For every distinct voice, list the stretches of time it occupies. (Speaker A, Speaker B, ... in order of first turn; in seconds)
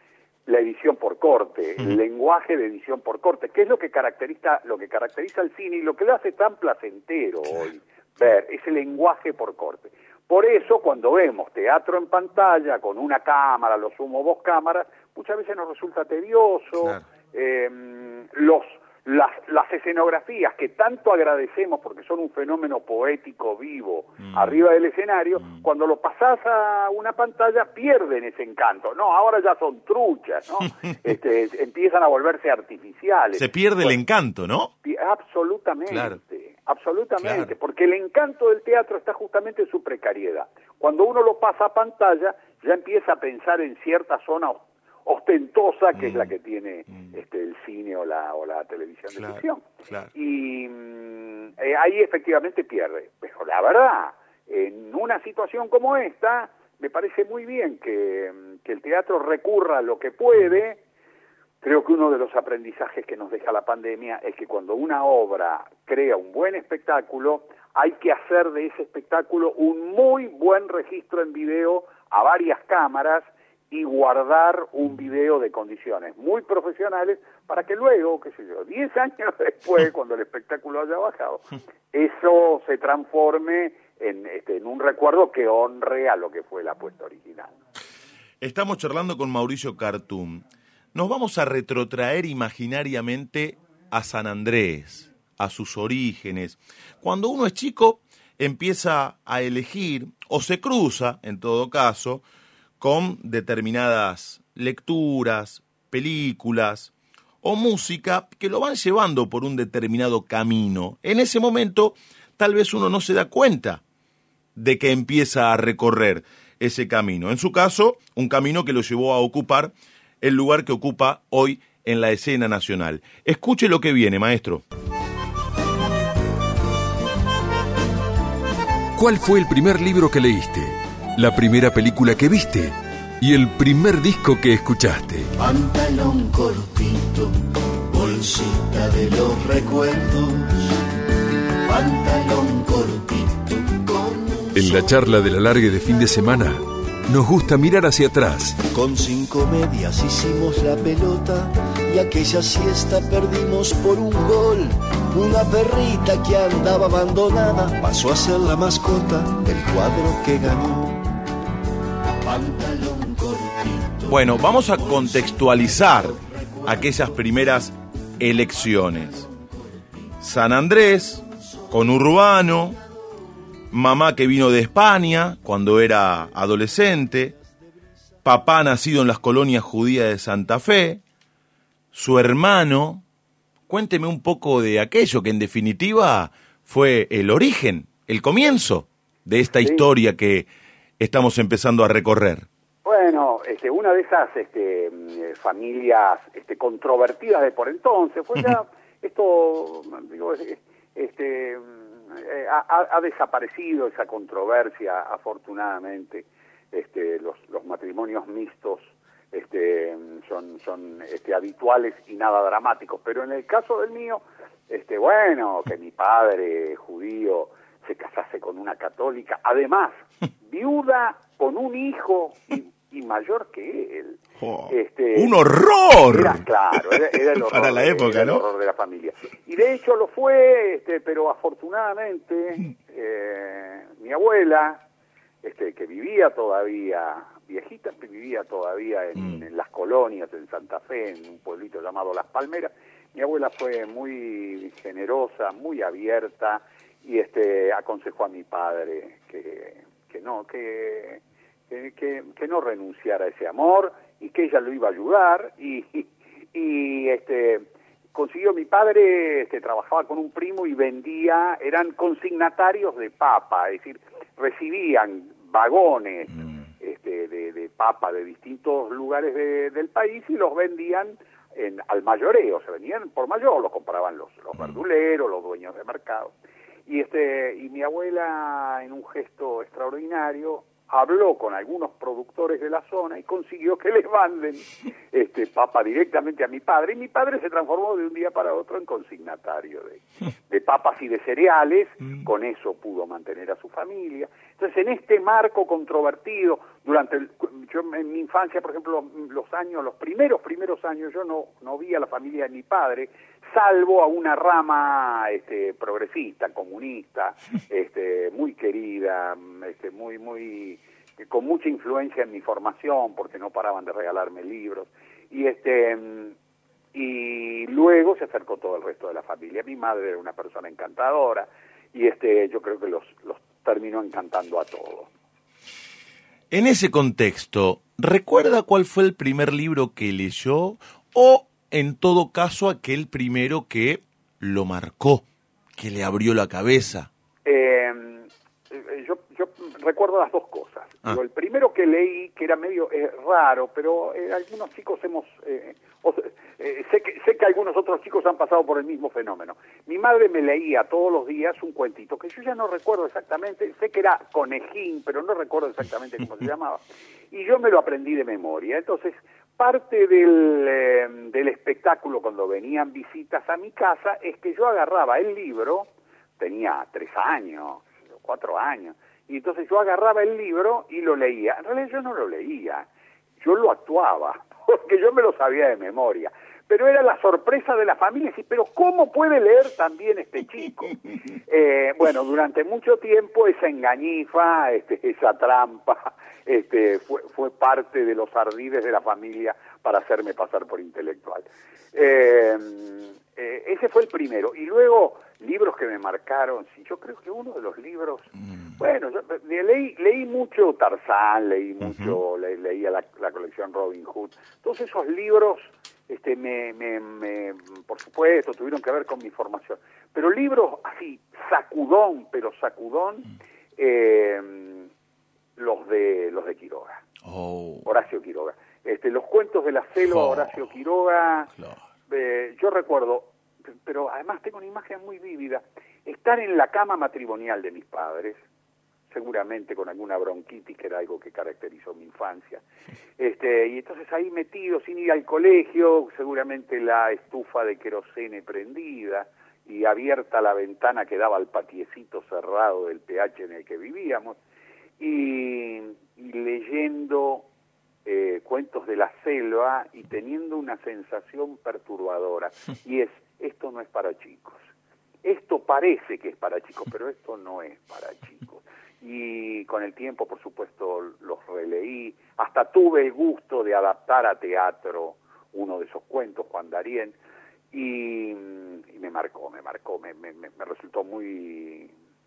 Speaker A: 0.5-34.0, 34.8-60.8, 61.6-87.5, 189.6-189.9, 192.8-225.4, 226.1-234.8, 235.4-276.3, 276.9-316.4, 316.9-325.1, 337.4-372.9, 373.4-414.9, 415.6-417.0, 417.9-421.5, 422.1-423.3, 423.9-428.4, 429.1-432.6, 433.2-444.4, 445.0-447.5, 448.1-454.6, 455.2-467.1, 467.7-471.9
Speaker B: 24.3-24.6, 33.4-34.7, 35.9-36.2, 37.2-37.5, 46.0-46.3, 49.2-50.1, 88.4-102.2, 102.8-113.8, 114.6-124.6, 164.1-169.3, 170.2-172.8, 173.7-177.3, 178.2-181.0, 181.9-183.0, 183.7-190.5, 191.0-192.5, 224.4-228.4, 239.2-239.4, 326.5-335.2, 335.8-337.1, 401.8-402.2, 417.2-417.9, 420.0-420.5
Speaker C: 129.0-135.3, 144.5-148.6
Speaker D: 135.4-140.8, 141.6-144.7, 148.7-161.2, 162.2-167.1